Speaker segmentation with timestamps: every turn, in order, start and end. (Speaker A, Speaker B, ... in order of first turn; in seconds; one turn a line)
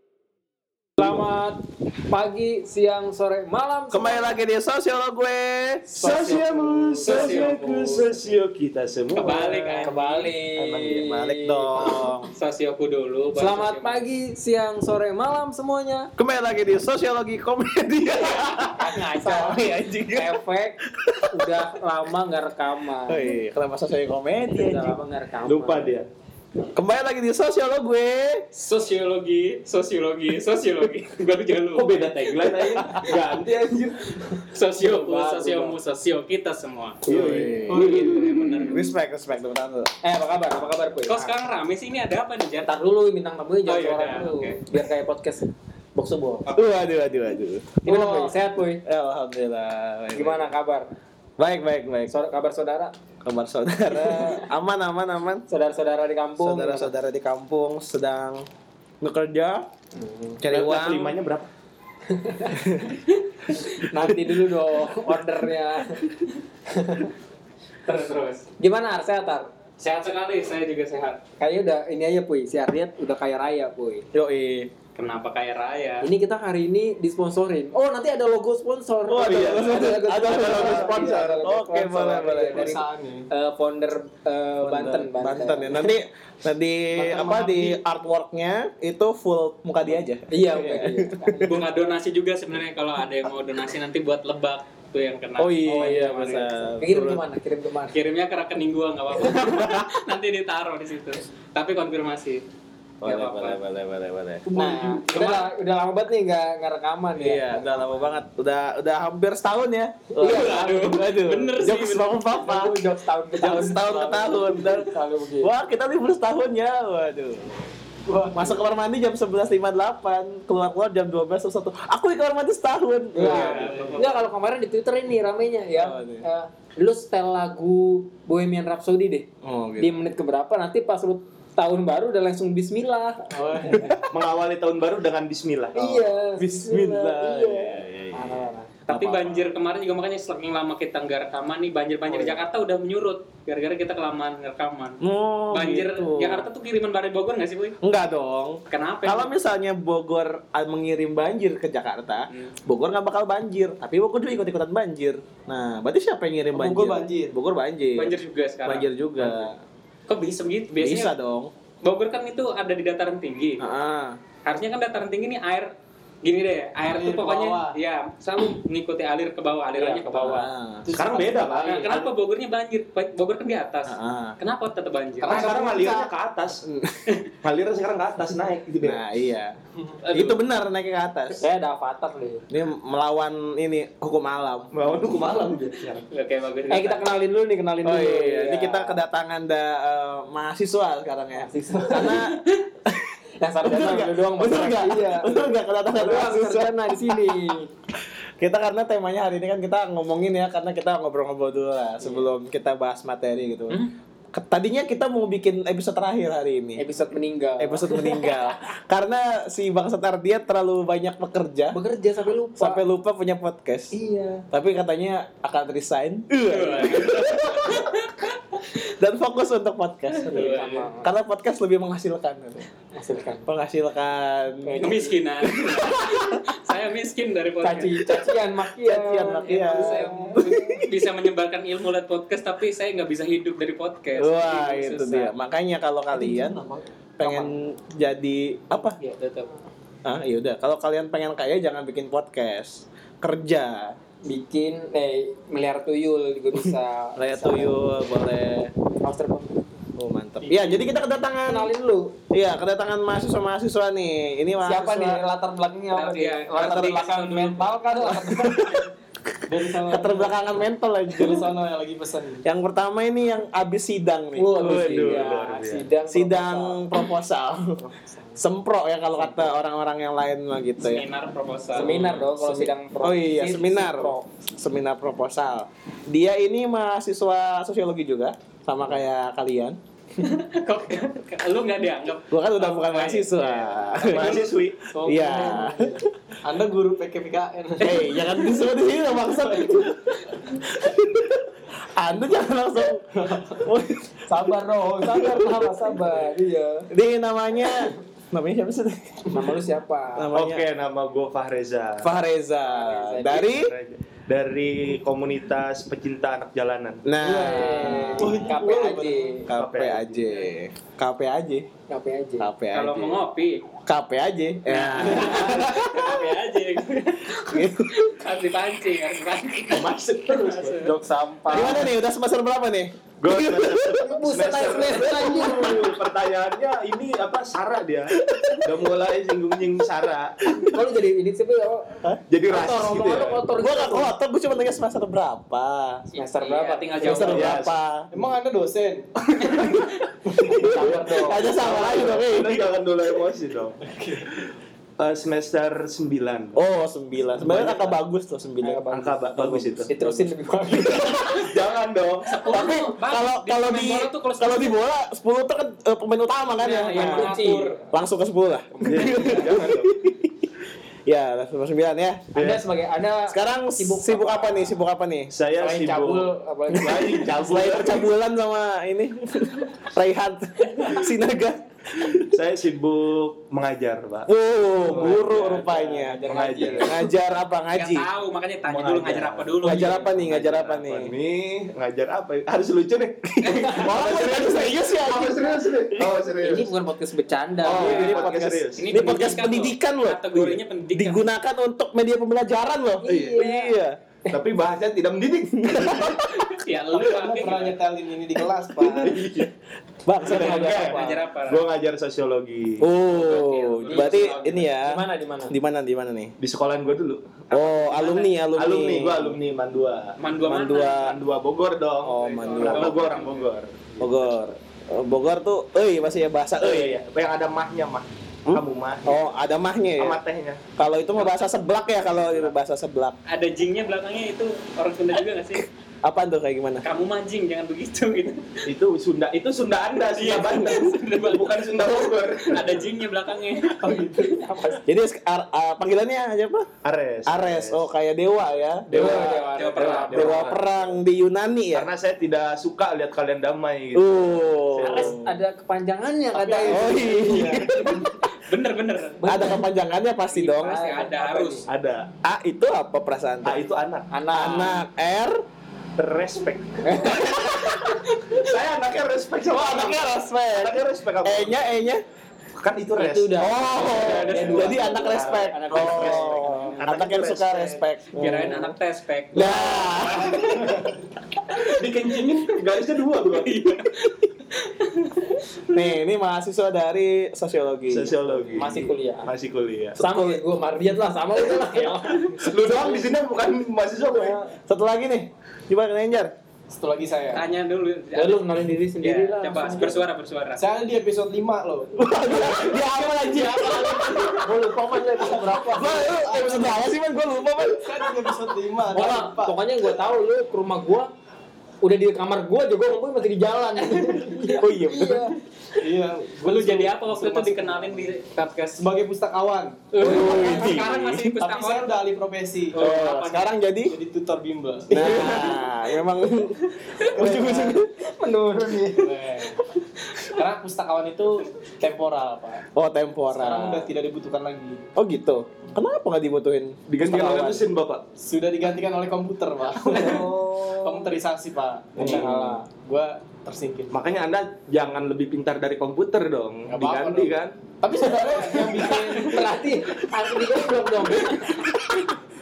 Speaker A: 1.0-4.4
Speaker B: 3.9-5.9
Speaker A: 5.9-8.0
Speaker C: 6.0-10.0
Speaker D: 7.0-8.1
Speaker D: 9.1-10.3
Speaker A: 9.8-12.3
Speaker B: 10.6-12.2
Speaker D: 12.3-14.0
Speaker A: 13.3-16.1
Speaker B: 16.2-20.4
Speaker A: 18.5-20.8
Speaker B: 20.9-21.6
Speaker A: 21.3-23.3
Speaker B: 23.1-25.0
Speaker A: 24.5-25.9
Speaker C: 25.5-26.1
Speaker B: 26.7-28.5
Speaker D: 28.6-33.1
Speaker C: 31.8-34.0
Speaker D: 34.5-37.0
Speaker A: 34.8-35.8
Speaker B: 37.1-39.9
Speaker A: 37.1-37.6
Speaker C: 37.1-38.1
Speaker D: 37.7-38.9
Speaker A: 40.0-41.3
Speaker D: 41.1-42.7
Speaker A: 42.6-46.5
Speaker D: 43.7-44.6
Speaker B: 46.5-48.3
Speaker A: 47.8-48.8
Speaker B: 48.9-50.5
Speaker A: 50.1-50.9
Speaker B: 51.4-52.1
Speaker A: 52.1-53.0
Speaker B: 53.2-55.5
Speaker A: 54.0-54.3
Speaker A: 55.5-56.9
Speaker B: 56.4-58.5
Speaker B: 59.0-59.7
Speaker A: 60.0-60.4
Speaker B: 60.4-61.2
Speaker C: 60.5-61.5
Speaker A: 62.1-62.6
Speaker B: 62.6-63.0
Speaker A: 63.6-66.0
Speaker A: 66.7-67.1
Speaker D: 67.9-68.5
Speaker A: 68.6-69.5
Speaker D: 69.8-71.2
Speaker A: 71.4-74.1
Speaker B: 74.1-74.7
Speaker D: 75.0-76.1
Speaker A: 76.0-85.8
Speaker B: 79.0-82.7
Speaker C: 79.1-81.4
Speaker E: 82.4-83.3
Speaker B: 84.6-91.5
Speaker E: 87.0-87.8
Speaker A: 90.3-91.6
Speaker D: 91.4-96.5
Speaker B: 95.4-97.2
Speaker A: 95.7-96.1
Speaker A: 96.8-98.0
Speaker D: 97.9-102.4
Speaker B: 103.0-104.5
Speaker D: 103.0-103.6
Speaker A: 104.5-107.6
Speaker E: 104.6-105.0
Speaker B: 105.1-105.4
Speaker B: 107.2-112.8
Speaker A: 110.2-110.6
Speaker D: 110.2-112.2
Speaker A: 112.3-115.5
Speaker B: 113.4-117.6
Speaker E: 118.1-118.6
Speaker B: 118.3-124.0
Speaker E: 123.2-124.2
Speaker A: 123.2-129.3
Speaker B: 125.7-126.2
Speaker B: 129.4-130.0
Speaker A: 129.8-133.9
Speaker E: 133.3-134.0
Speaker C: 134.1-136.2
Speaker A: 135.8-138.7
Speaker B: 136.4-139.4
Speaker D: 138.9-147.8
Speaker A: 142.1-142.4
Speaker B: 145.0-146.5
Speaker B: 147.8-159.6
Speaker D: 148.7-149.3
Speaker D: 152.3-152.6
Speaker E: 156.5-157.3
Speaker D: 158.0-159.5
Speaker D: 160.1-161.1
Speaker B: 160.8-161.5
Speaker D: 161.8-163.6
Speaker B: 163.6-164.2
Speaker D: 164.5-165.7
Speaker D: 166.2-170.5
Speaker E: 166.8-167.8
Speaker A: 169.8-170.5
Speaker B: 170.3-170.9
Speaker E: 170.8-171.9
Speaker C: 170.9-172.1
Speaker D: 171.5-175.6
Speaker B: 173.9-174.4
Speaker E: 175.2-176.1
Speaker C: 175.2-176.6
Speaker B: 176.6-177.1
Speaker C: 177.4-179.0
Speaker B: 178.8-179.6
Speaker B: 180.1-181.4
Speaker A: 180.1-180.4
Speaker A: 181.4-182.5
Speaker B: 182.5-184.7
Speaker C: 184.7-186.1
Speaker D: 186.1-187.1
Speaker A: 186.7-189.0
Speaker B: 187.8-197.6
Speaker A: 191.4-192.2
Speaker A: 193.4-197.7
Speaker B: 198.4-203.8
Speaker A: 202.0-202.3
Speaker B: 204.3-206.8
Speaker A: 206.8-208.5
Speaker B: 207.6-211.8
Speaker A: 211.7-212.8
Speaker B: 212.6-213.9
Speaker A: 213.9-214.4
Speaker B: 214.5-217.9
Speaker D: 216.5-218.6
Speaker B: 218.9-222.7
Speaker D: 220.3-220.9
Speaker A: 220.3-221.1
Speaker A: 222.9-223.5
Speaker B: 223.4-225.0
Speaker A: 224.7-225.1
Speaker D: 224.8-228.2
Speaker B: 225.8-226.2
Speaker A: 227.6-230.8
Speaker B: 228.7-230.9
Speaker D: 230.8-235.3
Speaker B: 234.2-236.6
Speaker A: 236.3-236.7
Speaker B: 237.2-239.0
Speaker D: 239.0-239.5
Speaker B: 240.1-244.0
Speaker A: 244.3-247.8
Speaker B: 246.6-248.7
Speaker A: 249.0-249.7
Speaker B: 250.0-251.7
Speaker A: 250.4-252.2
Speaker B: 252.3-255.2
Speaker A: 254.6-258.8
Speaker D: 255.9-257.7
Speaker B: 256.6-257.0
Speaker B: 258.0-258.8
Speaker E: 259.5-260.4
Speaker B: 259.8-261.5
Speaker E: 261.1-262.4
Speaker B: 262.4-265.3
Speaker A: 264.4-266.8
Speaker E: 264.5-264.8
Speaker C: 264.6-265.9
Speaker B: 266.1-267.8
Speaker B: 268.4-271.1
Speaker D: 270.8-272.1
Speaker A: 271.7-274.3
Speaker B: 271.8-279.8
Speaker D: 280.2-284.2
Speaker B: 282.3-284.5
Speaker C: 284.0-284.8
Speaker E: 284.9-288.6
Speaker B: 285.0-286.0
Speaker B: 287.8-290.0
Speaker E: 289.2-290.0
Speaker B: 290.7-293.0
Speaker E: 293.1-293.7
Speaker B: 293.6-294.2
Speaker A: 294.3-296.9
Speaker B: 295.0-295.6
Speaker B: 296.9-299.5
Speaker A: 299.3-300.3
Speaker B: 300.2-300.7
Speaker C: 300.3-302.1
Speaker B: 302.0-303.8
Speaker A: 302.7-303.6
Speaker C: 303.3-307.1
Speaker B: 307.1-311.7
Speaker A: 307.2-309.5
Speaker E: 307.5-308.4
Speaker C: 309.5-310.3
Speaker A: 311.9-312.5
Speaker B: 312.4-313.2
Speaker D: 312.7-313.6
Speaker B: 313.9-316.0
Speaker D: 314.7-319.9
Speaker B: 317.5-317.9
Speaker C: 319.7-321.0
Speaker D: 320.4-320.9
Speaker A: 320.5-321.9
Speaker B: 321.5-324.1
Speaker C: 323.2-328.1
Speaker A: 324.1-325.9
Speaker B: 325.2-325.8
Speaker B: 328.2-328.7
Speaker C: 328.6-330.5
Speaker B: 330.5-330.8
Speaker A: 330.6-334.1
Speaker C: 332.3-333.4
Speaker B: 333.6-336.0
Speaker D: 336.1-337.6
Speaker A: 336.2-337.6
Speaker B: 337.0-338.1
Speaker C: 337.3-337.8
Speaker E: 338.1-339.1
Speaker C: 339.3-339.9
Speaker B: 340.5-342.8
Speaker A: 340.6-342.1
Speaker C: 340.8-343.8
Speaker E: 343.8-344.3
Speaker C: 345.0-346.6
Speaker B: 346.6-350.3
Speaker C: 347.4-348.0
Speaker A: 348.6-349.1
Speaker C: 348.9-349.9
Speaker A: 349.9-351.3
Speaker C: 350.7-352.4
Speaker D: 352.3-354.8
Speaker B: 352.4-357.3
Speaker D: 356.6-357.8
Speaker A: 356.9-357.8
Speaker B: 357.9-360.2
Speaker A: 358.8-359.5
Speaker C: 358.8-359.9
Speaker B: 361.1-362.3
Speaker C: 362.4-362.6
Speaker A: 362.4-364.8
Speaker B: 363.3-365.3
Speaker C: 365.3-368.1
Speaker A: 365.6-367.4
Speaker B: 367.1-372.3
Speaker C: 372.2-374.3
Speaker B: 374.3-378.1
Speaker C: 374.8-375.6
Speaker E: 374.8-377.0
Speaker C: 376.3-377.0
Speaker A: 376.4-376.8
Speaker D: 377.7-380.9
Speaker C: 378.7-379.6
Speaker B: 379.6-381.1
Speaker C: 380.9-386.7
Speaker B: 383.4-386.2
Speaker A: 383.5-383.9
Speaker A: 386.4-388.3
Speaker B: 387.6-394.0
Speaker C: 387.7-389.0
Speaker D: 388.8-391.3
Speaker A: 393.0-393.8
Speaker C: 393.1-393.5
Speaker C: 394.3-396.3
Speaker B: 395.6-396.2
Speaker D: 396.3-397.8
Speaker E: 396.9-399.4
Speaker B: 398.4-399.3
Speaker C: 399.0-399.5
Speaker B: 400.1-401.1
Speaker C: 400.2-402.9
Speaker D: 400.2-401.6
Speaker A: 400.7-401.2
Speaker B: 402.8-406.4
Speaker D: 403.1-404.6
Speaker A: 403.9-405.5
Speaker C: 406.4-410.2
Speaker B: 407.5-409.4
Speaker D: 407.9-408.3
Speaker D: 410.2-411.2
Speaker B: 410.5-411.1
Speaker C: 411.0-414.4
Speaker B: 412.0-413.0
Speaker D: 412.1-413.5
Speaker B: 414.0-417.0
Speaker C: 416.6-419.3
Speaker B: 418.5-420.2
Speaker C: 420.0-421.5
Speaker B: 420.8-423.2
Speaker C: 422.1-422.5
Speaker D: 423.3-425.7
Speaker B: 425.6-426.9
Speaker D: 426.8-428.7
Speaker C: 428.7-432.9
Speaker D: 430.0-434.5
Speaker E: 433.8-434.6
Speaker B: 434.8-436.7
Speaker C: 436.8-437.8
Speaker B: 437.3-439.5
Speaker A: 438.9-440.6
Speaker C: 438.9-439.4
Speaker D: 439.0-440.6
Speaker C: 439.9-440.3
Speaker B: 440.1-441.9
Speaker C: 441.7-445.2
Speaker B: 443.9-445.3
Speaker A: 444.9-447.8
Speaker E: 446.3-447.6
Speaker B: 446.7-448.1
Speaker D: 448.2-449.6
Speaker A: 449.2-449.6
Speaker B: 449.2-450.9
Speaker A: 450.3-451.6
Speaker D: 450.4-451.6
Speaker C: 451.7-452.1
Speaker B: 452.2-453.6
Speaker C: 453.4-454.1
Speaker A: 454.1-454.8
Speaker B: 454.3-455.4
Speaker C: 456.0-457.6
Speaker A: 456.9-457.9
Speaker B: 457.1-457.5
Speaker C: 458.3-461.6
Speaker B: 459.5-462.0
Speaker C: 462.6-467.8
Speaker A: 463.0-466.4
Speaker B: 463.4-468.8
Speaker D: 463.7-467.0
Speaker D: 468.1-470.3
Speaker B: 469.3-470.8
Speaker C: 470.1-470.9
Speaker C: 471.6-473.8
Speaker D: 473.3-475.8
Speaker B: 475.7-478.8
Speaker C: 477.9-480.0
Speaker A: 478.6-479.3
Speaker B: 480.0-480.4
Speaker A: 480.0-483.1
Speaker C: 482.4-484.4
Speaker B: 484.1-486.3
Speaker E: 486.7-487.5
Speaker D: 487.3-490.7
Speaker A: 488.1-490.0
Speaker E: 489.5-490.0
Speaker E: 490.6-491.9
Speaker B: 492.0-498.3
Speaker C: 492.3-492.8
Speaker E: 492.6-494.0
Speaker A: 493.1-496.1
Speaker C: 493.4-494.3
Speaker E: 495.6-496.8
Speaker E: 497.7-499.6
Speaker A: 498.9-501.1
Speaker A: 501.8-505.3
Speaker B: 504.6-505.3
Speaker E: 505.8-508.0
Speaker D: 506.4-508.9
Speaker E: 508.8-513.0
Speaker D: 509.9-511.9
Speaker B: 510.0-511.3
Speaker D: 512.8-513.5
Speaker B: 512.8-513.9
Speaker E: 513.9-515.7
Speaker B: 514.9-517.9
Speaker E: 517.0-519.6
Speaker E: 520.2-522.6
Speaker B: 522.8-523.9
Speaker E: 523.3-524.8
Speaker B: 525.0-527.6
Speaker C: 526.9-528.0
Speaker E: 528.2-534.0
Speaker A: 529.9-531.1
Speaker B: 532.0-532.5
Speaker A: 532.0-532.6
Speaker C: 533.9-537.6
Speaker E: 536.7-539.8
Speaker A: 538.4-541.9